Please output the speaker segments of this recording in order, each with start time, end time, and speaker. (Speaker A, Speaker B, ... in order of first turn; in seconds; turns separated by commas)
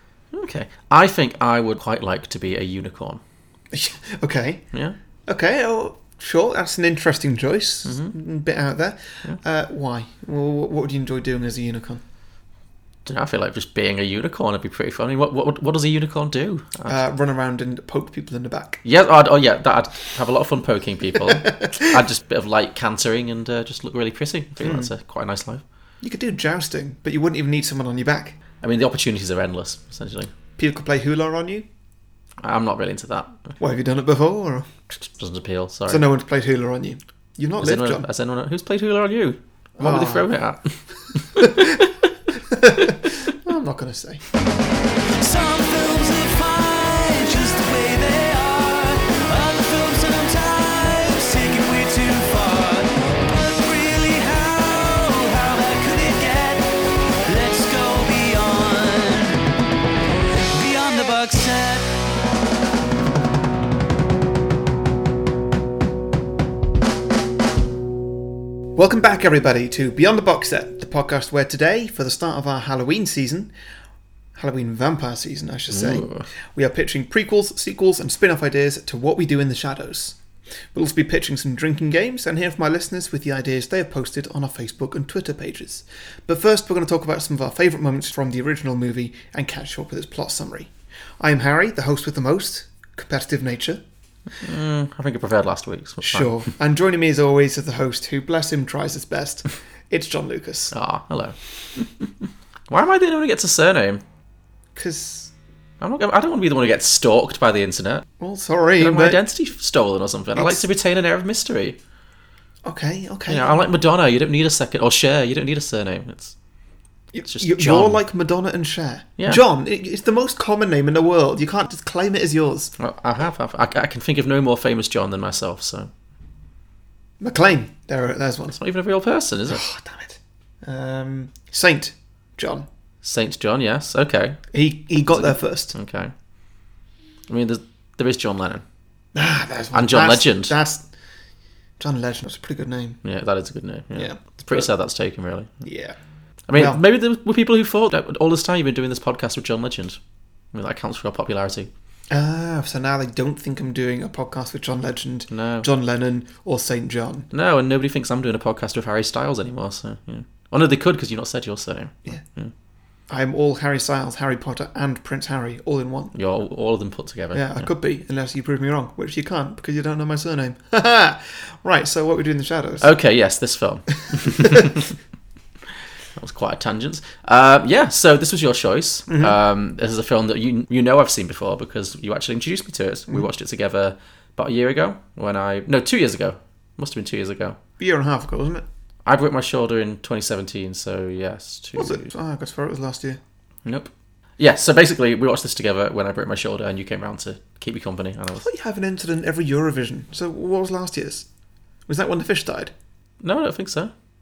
Speaker A: 0.3-3.2, Speaker B: 3.7-4.7, Speaker B: 5.3-12.0, Speaker A: 7.8-8.1, Speaker A: 13.1-17.0, Speaker B: 16.9-18.8, Speaker A: 18.8-25.6, Speaker B: 24.6-24.9, Speaker B: 26.0-28.4, Speaker A: 28.6-30.3, Speaker B: 30.6-31.6, Speaker A: 32.4-33.5, Speaker B: 33.6-34.7, Speaker A: 34.9-36.1, Speaker B: 35.9-38.0, Speaker A: 37.6-41.5, Speaker B: 39.8-40.3, Speaker B: 41.4-41.8, Speaker B: 42.5-44.2, Speaker C: 45.2-59.4, Speaker C: 60.5-61.9, Speaker B: 68.7-73.5, Speaker B: 74.3-80.2, Speaker A: 75.7-76.2, Speaker B: 80.7-93.8, Speaker A: 94.4-96.3, Speaker B: 96.0-100.7, Speaker A: 100.7-102.0, Speaker A: 102.7-104.0, Speaker B: 104.8-105.3, Speaker A: 105.8-108.1, Speaker B: 108.2-109.2, Speaker A: 108.8-111.8, Speaker B: 110.3-110.6, Speaker B: 112.6-113.6, Speaker A: 113.3-116.3, Speaker B: 117.1-122.7, Speaker A: 117.2-118.0, Speaker A: 122.8-125.9, Speaker B: 127.2-128.6, Speaker A: 128.5-129.6, Speaker B: 129.5-132.7, Speaker A: 133.0-134.5, Speaker B: 134.5-135.7, Speaker A: 135.1-136.1, Speaker A: 137.3-138.6, Speaker B: 139.1-140.9, Speaker A: 139.7-140.5, Speaker B: 141.8-143.0, Speaker A: 143.0-145.6, Speaker B: 143.9-144.7, Speaker B: 145.6-145.9, Speaker A: 146.5-150.0, Speaker B: 146.5-146.8, Speaker A: 150.5-151.7, Speaker B: 152.1-157.3, Speaker A: 155.3-155.7, Speaker A: 157.3-162.5, Speaker B: 163.1-166.1, Speaker A: 166.1-167.7, Speaker B: 167.3-172.9, Speaker A: 172.8-174.9, Speaker A: 176.2-187.6, Speaker B: 179.1-179.3, Speaker B: 187.8-188.6, Speaker A: 189.1-192.1, Speaker B: 191.8-193.2, Speaker A: 193.6-198.4, Speaker B: 198.4-201.3, Speaker B: 201.9-202.7, Speaker A: 203.2-203.9